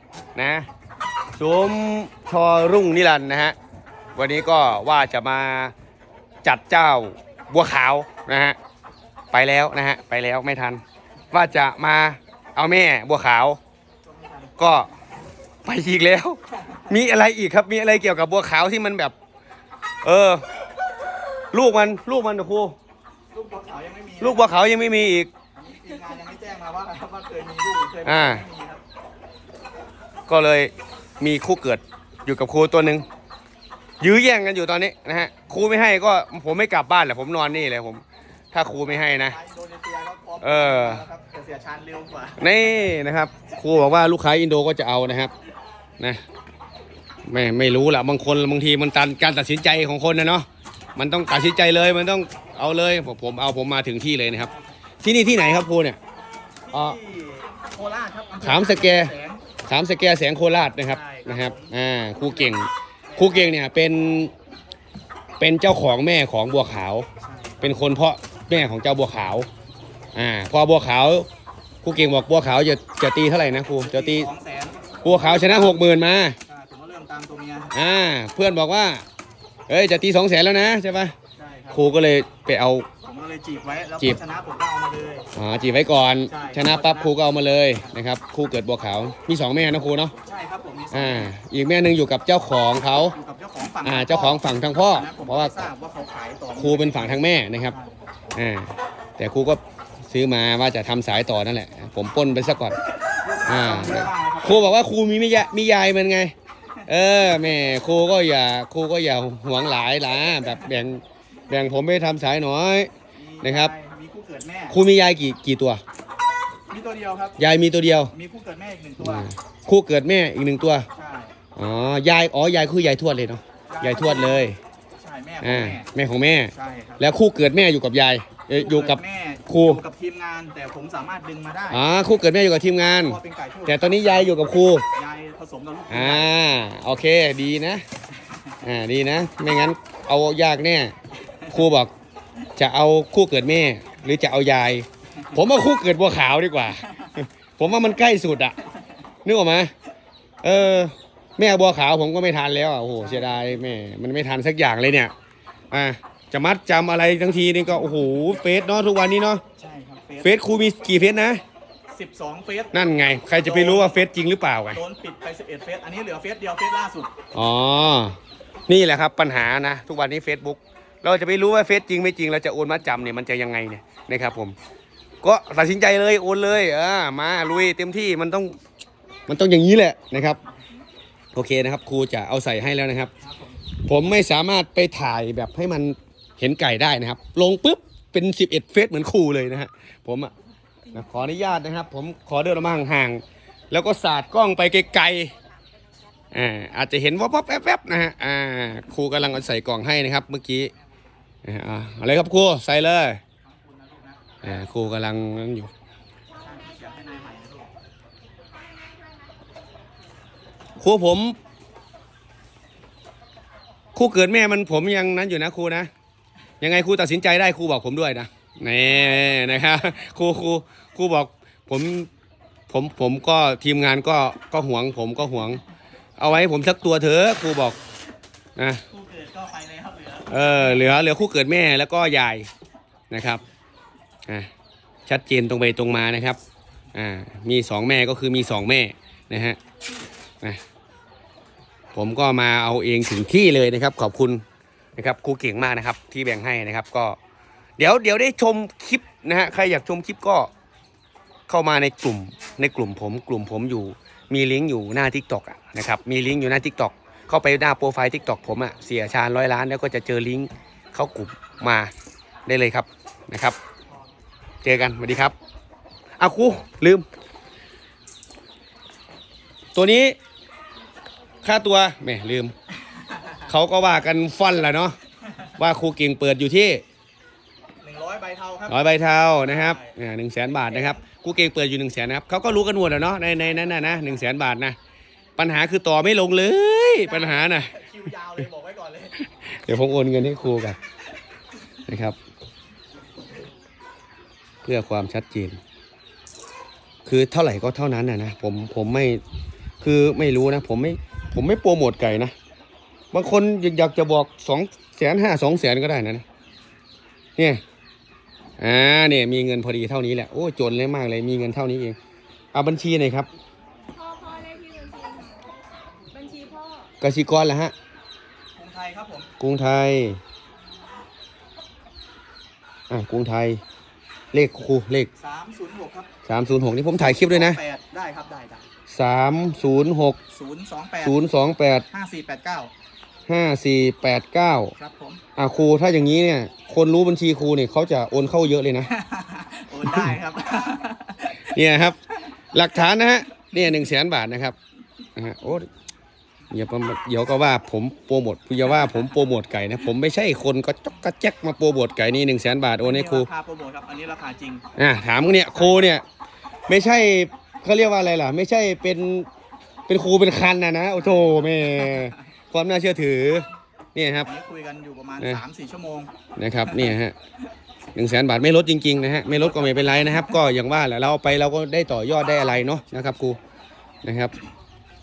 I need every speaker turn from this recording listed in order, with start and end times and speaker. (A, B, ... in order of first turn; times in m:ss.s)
0:00.4-0:00.6 A
0:01.4-0:03.5 A
0:04.2-0:05.7 A
0:06.4-0:08.6 A
0:09.3-0:10.8 A
0:11.3-0:13.6 A
0:14.0-0:14.6 B
0:14.6-0:14.9 A
0:15.6-0:19.1 A
0:16.6-0:16.9 B
0:20.0-0:20.4 A
0:21.5-0:22.8 A
0:23.3-0:24.5 B
0:24.2-0:25.3 A
0:25.5-0:28.8 B
0:28.0-0:28.4 A
0:30.3-0:33.0 A
0:34.0-0:39.4 A
0:38.8-0:42.5 B
0:40.4-0:41.0 A
0:42.4-0:45.3 A
0:47.2-0:56.0 A
0:56.6-0:59.4 B
0:56.7-0:57.0 A
0:58.4-0:59.1 A
0:59.6-1:04.3 A
1:00.9-1:02.5 B
1:03.1-1:03.6 B
1:05.4-1:07.1 A
1:07.2-1:07.7 B
1:07.6-1:09.5 A
1:10.1-1:11.3 A
1:11.8-1:14.3 A
1:13.8-1:15.8 B
1:15.0-1:16.4 A
1:16.4-1:17.8 B
1:17.7-1:19.0 A
1:19.7-1:21.1 A
1:21.4-1:21.9 B
1:21.7-1:22.9 A
1:23.0-1:25.3 B
1:25.3-1:30.1 A
1:26.3-1:27.2 B
1:30.2-1:31.3 B
1:30.9-1:33.1 A
1:33.1-1:38.0 B
1:33.8-1:35.6 A
1:36.6-1:37.7 A
1:38.3-1:42.8 A
1:43.0-1:44.8 B
1:43.5-1:46.3 A
1:46.9-1:52.9 A
1:50.4-1:50.6 B
1:53.2-1:54.8 B
1:53.4-1:53.7 A
1:54.7-1:55.8 A
1:56.7-1:57.4 B
1:57.4-1:58.1 A
1:58.1-1:59.3 B
1:59.0-2:00.9 A
2:00.9-2:01.3 B
2:01.6-2:04.6 A
2:03.7-2:05.9 B
2:05.4-2:09.8 A
2:06.5-2:07.0 B
2:08.5-2:11.8 B
2:11.7-2:14.8 A
2:12.8-2:14.4 B
2:14.9-2:16.3 B
2:15.9-2:17.8 A
2:18.6-2:20.9 A
2:21.5-2:21.9 A
2:22.6-2:28.6 A
2:29.2-2:29.7 A
2:30.4-2:35.1 A
2:33.0-2:33.6 B
2:35.7-2:39.4 A
2:39.6-2:40.4 B
2:40.2-2:41.4 A
2:41.9-2:42.8 B
2:42.7-2:44.8 A
2:43.4-2:44.0 B
2:44.7-2:47.1 B
2:47.3-2:48.2 A
2:48.7-2:54.6 A
2:55.2-2:58.6 A
2:59.3-3:00.4 A
3:01.3-3:03.1 A
3:03.2-3:03.6 B
3:03.8-3:10.3 A
3:10.9-3:15.3 A
3:16.3-3:20.7 A
3:21.4-3:23.2 A
3:23.4-3:24.7 B
3:24.4-3:25.7 A
3:26.4-3:27.7 B
3:28.7-3:29.3 C
3:30.8-3:31.4 A
3:33.9-3:35.9 A
3:36.6-3:42.1 A
3:42.7-3:45.6 A
3:46.2-3:47.8 A
3:48.6-3:48.8 A
3:48.9-3:50.9 B
3:50.3-3:52.5 A
3:53.1-3:53.4 A
3:55.1-3:56.4 A
3:56.9-3:59.6 A
4:01.9-4:04.4 A
4:05.0-4:07.2 A
4:07.8-4:10.5 A
4:11.5-4:21.9 A
4:22.4-4:23.6 A
4:24.6-4:25.3 A
4:26.2-4:27.0 A
4:29.7-4:30.2 A
4:31.4-4:32.5 A
4:32.9-4:33.4 B
4:33.4-4:35.0 A
4:35.6-4:36.8 A
4:37.8-4:39.9 B
4:38.7-4:44.8 A
4:40.5-4:41.0 B
4:43.6-4:44.2 B
4:45.4-4:47.7 A
4:47.0-4:49.2 B
4:49.2-4:50.8 A
4:51.8-4:52.2 A
4:54.6-4:55.6 A
4:57.0-4:59.2 A
4:59.8-5:02.3 A
5:03.1-5:06.2 A
5:07.4-5:07.6 A
5:08.6-5:12.0 A
5:12.5-5:13.3 A
5:13.9-5:15.5 C
5:16.1-5:16.9 C
5:17.0-5:17.7 A
5:18.6-5:19.3 B
5:19.4-5:20.2 A
5:22.9-5:23.6 A
5:24.3-5:25.1 A
5:25.2-5:26.1 B
5:26.2-5:27.6 A
5:27.0-5:28.7 B
5:28.9-5:30.2 A
5:30.3-5:31.2 B
5:31.0-5:31.8 A
5:31.9-5:32.7 B
5:33.3-5:34.7 A
5:34.8-5:35.2 B
5:35.4-5:38.9 A
5:38.9-5:41.5 B
5:39.8-5:40.1 A
5:41.4-5:42.0 A
5:42.5-5:44.6 A
5:43.5-5:43.8 B
5:45.2-5:45.7 A
5:46.5-5:53.3 A
5:52.8-5:54.6 B
5:54.8-5:56.0 A
5:55.3-5:55.9 B
5:56.7-5:59.3 A
5:59.9-6:04.3 A
6:01.0-6:02.2 B
6:04.2-6:06.1 B
6:06.4-6:07.1 A
6:06.6-6:06.9 B
6:07.9-6:13.4 A
6:09.3-6:10.4 B
6:14.0-6:14.3 A